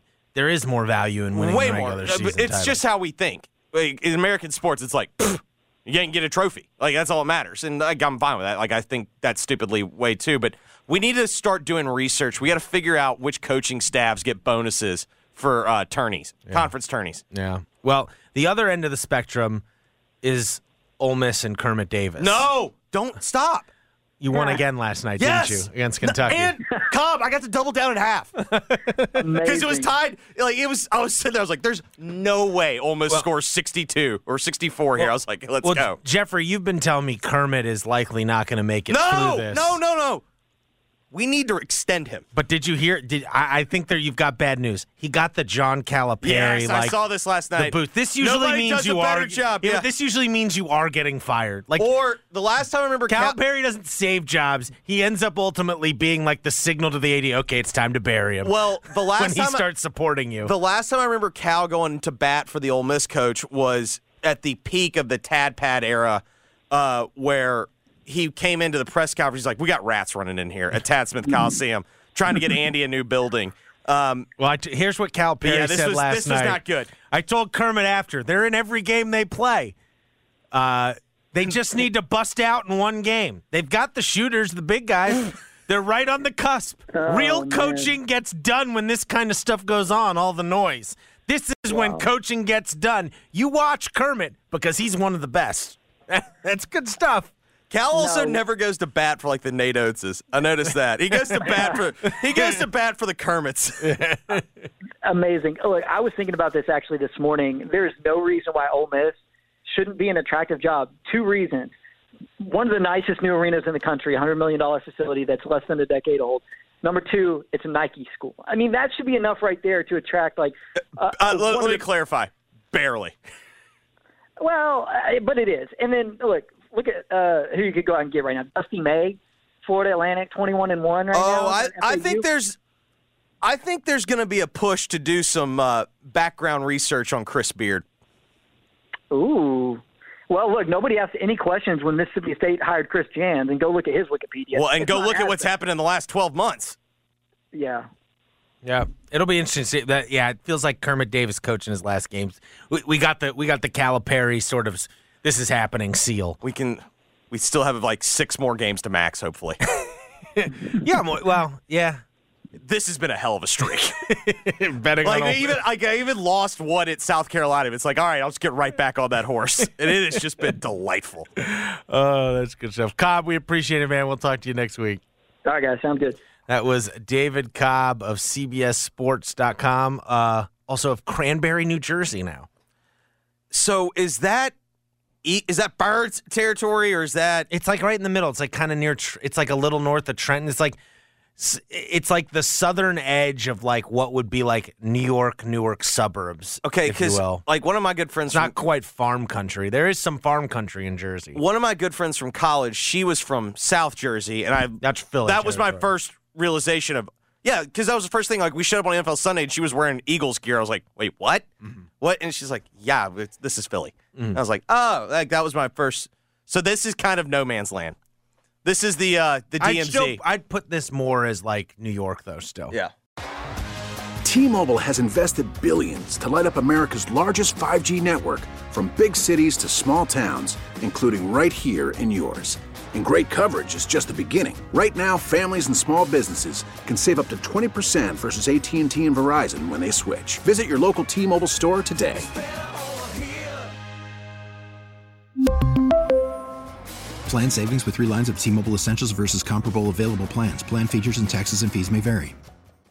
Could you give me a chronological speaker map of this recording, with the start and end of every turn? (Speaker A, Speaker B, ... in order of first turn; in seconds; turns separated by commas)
Speaker A: 0.3-2.8, Speaker B: 1.3-17.2, Speaker A: 17.3-19.6, Speaker A: 20.2-22.5, Speaker B: 22.2-23.7, Speaker A: 24.2-26.6, Speaker B: 25.2-28.4, Speaker A: 28.5-29.2, Speaker C: 29.2-29.9, Speaker B: 29.4-36.0, Speaker A: 35.6-39.8, Speaker B: 38.9-40.2, Speaker B: 41.1-42.2, Speaker A: 42.4-47.0, Speaker B: 46.2-49.9, Speaker A: 47.6-51.9, Speaker B: 51.8-53.4, Speaker A: 53.1-58.6, Speaker B: 58.4-59.7, Speaker A: 59.2-60.5, Speaker B: 60.4-74.3, Speaker A: 74.4-79.7, Speaker B: 75.4-76.9, Speaker A: 80.5-97.3, Speaker C: 86.9-87.9, Speaker C: 91.7-92.0, Speaker B: 97.7-103.9, Speaker C: 97.9-98.4, Speaker A: 103.8-104.4, Speaker C: 105.0-111.7, Speaker C: 112.4-121.8, Speaker B: 121.1-123.2, Speaker C: 124.4-132.2, Speaker B: 131.1-132.6, Speaker B: 133.4-137.8, Speaker C: 139.1-145.5, Speaker B: 144.5-146.8, Speaker C: 147.5-147.9, Speaker A: 148.6-156.4, Speaker B: 156.4-159.6, Speaker A: 159.8-162.0, Speaker B: 162.6-164.0, Speaker A: 164.1-165.6, Speaker B: 165.0-171.3, Speaker A: 169.6-169.9, Speaker A: 171.4-175.0, Speaker C: 175.4-176.2, Speaker A: 176.5-182.5, Speaker B: 183.5-184.5, Speaker B: 185.2-187.5, Speaker A: 187.5-190.8, Speaker A: 191.4-197.4, Speaker B: 196.6-198.6, Speaker A: 198.3-201.4, Speaker B: 201.3-211.5, Speaker A: 204.8-205.9, Speaker B: 212.0-218.0, Speaker B: 218.7-220.2, Speaker A: 219.6-222.8, Speaker D: 224.2-242.3, Speaker E: 247.3-252.4